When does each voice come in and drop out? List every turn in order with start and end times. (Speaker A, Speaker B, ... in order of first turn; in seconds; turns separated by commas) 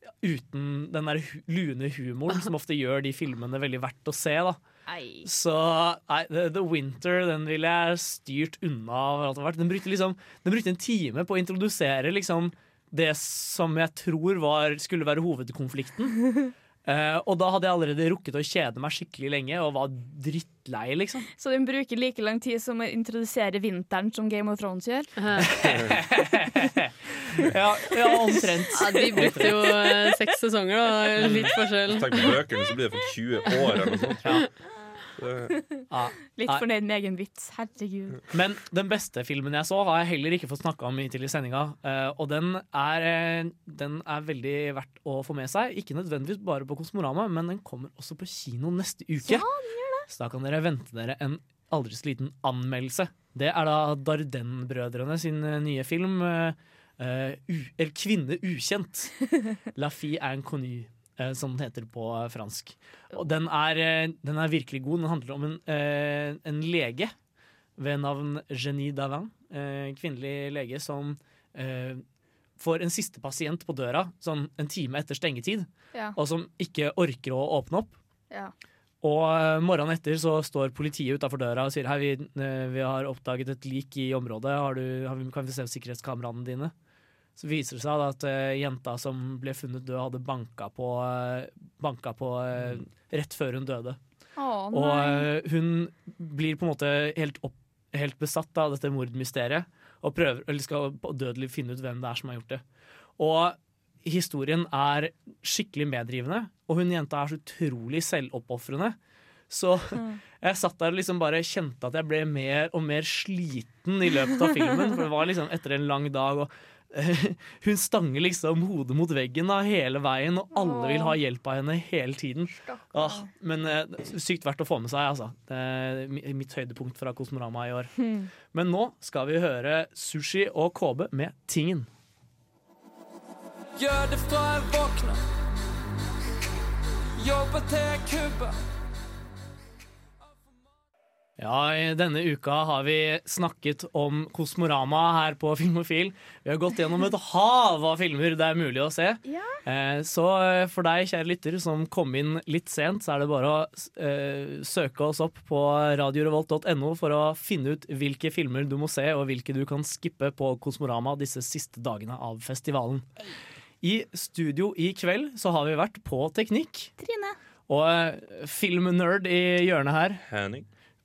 Speaker A: 0.2-4.6, Speaker B: 4.9-5.3, Speaker A: 5.2-16.3, Speaker A: 16.8-21.3, Speaker B: 21.4-25.1, Speaker C: 25.2-25.5, Speaker A: 25.4-29.7, Speaker C: 28.7-32.3, Speaker B: 28.8-29.4, Speaker A: 31.2-31.5, Speaker D: 31.2-34.5, Speaker D: 35.2-35.5, Speaker A: 35.9-36.6, Speaker B: 36.3-38.2, Speaker A: 38.3-49.5, Speaker B: 49.2-50.0, Speaker A: 50.1-59.1, Speaker A: 59.7-67.1, Speaker A: 67.8-72.0, Speaker A: 72.6-78.0, Speaker A: 79.0-86.7, Speaker A: 87.4-94.0, Speaker B: 94.4-95.3, Speaker A: 94.7-102.6, Speaker A: 103.2-109.0, Speaker A: 109.5-128.0, Speaker B: 120.5-121.2, Speaker B: 122.6-123.3, Speaker B: 128.0-128.3, Speaker A: 128.5-131.9, Speaker E: 133.8-135.2, Speaker E: 137.2-138.5, Speaker A: 141.4-163.1, Speaker B: 149.2-149.6, Speaker A: 163.8-166.9, Speaker B: 167.0-167.3, Speaker A: 167.7-170.2, Speaker D: 170.3-170.7